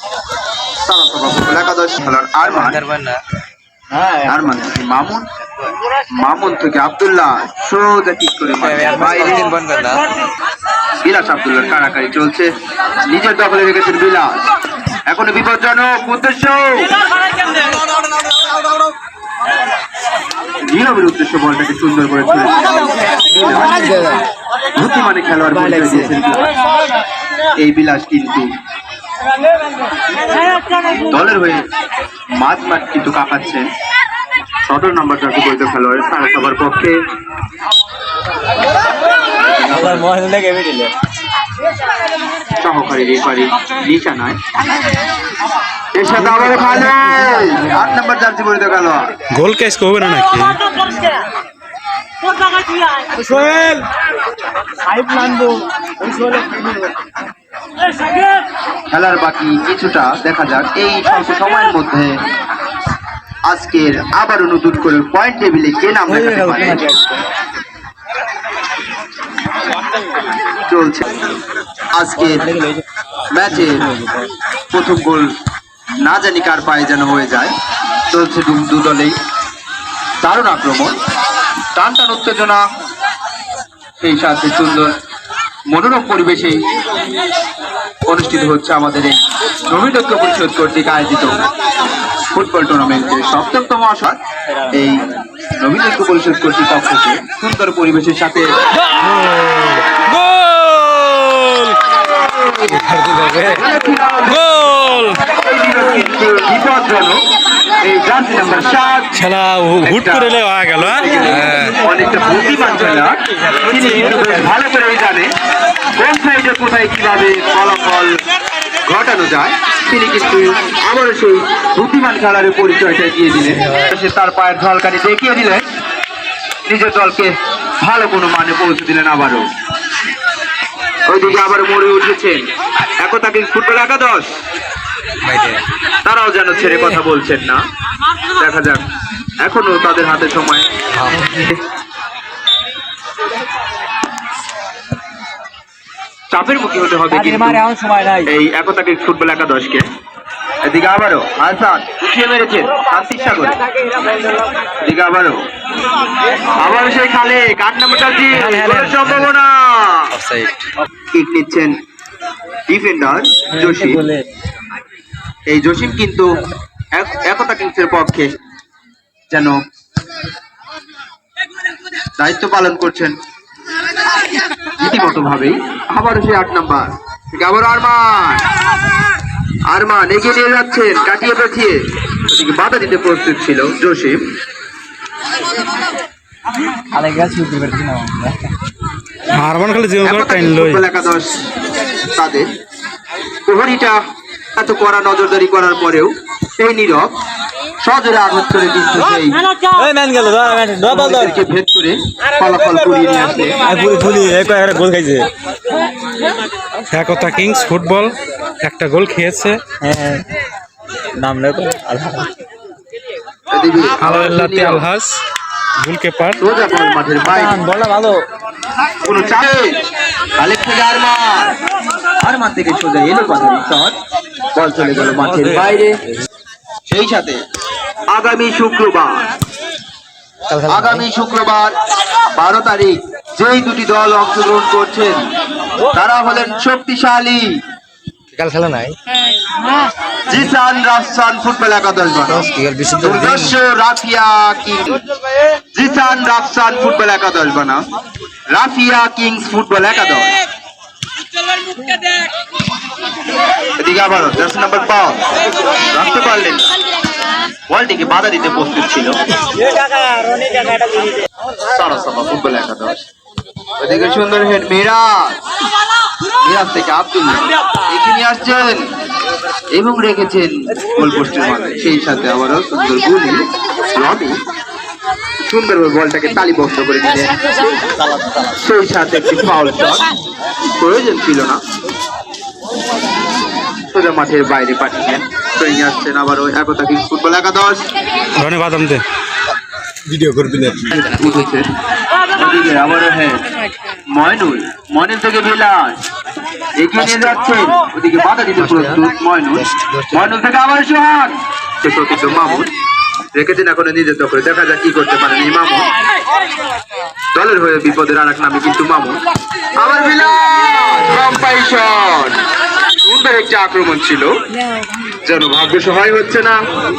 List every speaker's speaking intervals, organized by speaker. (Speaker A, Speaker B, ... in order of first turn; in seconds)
Speaker A: 0.8-2.8, 4.3-5.2, 6.2-9.4, 11.0-12.5, 13.1-14.3, 15.1-16.9, 20.7-24.2, 24.8-26.5, 27.6-28.5, 31.0-31.6, 32.4-33.7, 34.7-37.0, 39.7-40.0, 42.6-44.4, 46.0-49.1, 58.9-62.2, 63.5-66.9, 70.7-71.3, 71.9-72.5, 73.3-73.8, 74.7-75.3, 76.0-77.5, 78.1-79.1, 80.2-81.0, 81.7-82.6, 84.0-84.9, 85.7-86.6, 88.1-91.4, 92.3-95.0, 95.6-98.5, 103.4-104.5, 105.3-107.2, 107.8-109.2, 109.8-110.4, 110.9-115.3, 116.0-118.1, 118.8-125.6, 126.7-129.5, 131.1-132.4, 133.0-134.3, 136.0-137.6, 138.4-138.8, 139.4-141.6, 146.3-147.6, 148.2-149.9, 150.6-153.6, 154.8-155.4, 156.5-160.2, 161.1-161.7, 162.7-164.1, 165.5-166.3, 166.9-168.3, 169.3-169.6, 172.2-173.2, 174.8-178.5, 179.7-184.2, 190.0-191.3, 192.1-192.5, 193.5-194.0, 194.6-197.1, 197.8-199.4, 200.9-203.6, 213.5-214.9, 216.4-217.6, 219.0-219.7, 220.4-221.5, 222.2-223.9, 224.6-226.0, 226.9-227.4, 228.1-229.2, 230.6-231.7, 232.4-235.2, 235.9-237.4, 240.3-245.0, 245.8-247.8, 248.5-250.3, 253.8-256.6, 257.7-259.2, 261.6-263.1, 263.8-265.3, 266.4-268.9, 269.7-273.4, 273.9-274.4, 275.4-277.4, 278.4-280.1, 280.8-281.6, 283.9-287.9, 290.8-291.7, 292.3-293.4, 294.1-295.9, 296.8-302.7, 303.3-305.9, 307.3-309.2, 309.8-312.4, 313.0-314.3, 315.2-316.6
Speaker B: 2.4-3.2, 3.9-4.6, 8.6-10.1, 23.8-24.2, 25.8-26.1, 39.7-40.9, 46.8-47.8, 53.1-53.8, 55.0-55.6, 66.1-67.1, 72.2-72.8, 73.5-74.2, 135.3-135.6, 147.1-148.3, 160.2-160.7, 163.5-164.3, 186.9-188.4, 199.7-201.4, 203.6-205.3, 209.8-210.3, 211.2-212.3, 217.2-218.2, 230.5-231.0, 238.3-239.0, 242.4-243.5, 290.1-290.8, 299.8-300.1
Speaker C: 49.3-50.7, 99.0-101.8, 102.6-103.6, 104.3-105.2, 109.1-111.8, 189.3-190.8, 206.9-209.6, 214.0-215.2, 215.8-216.4, 288.3-289.0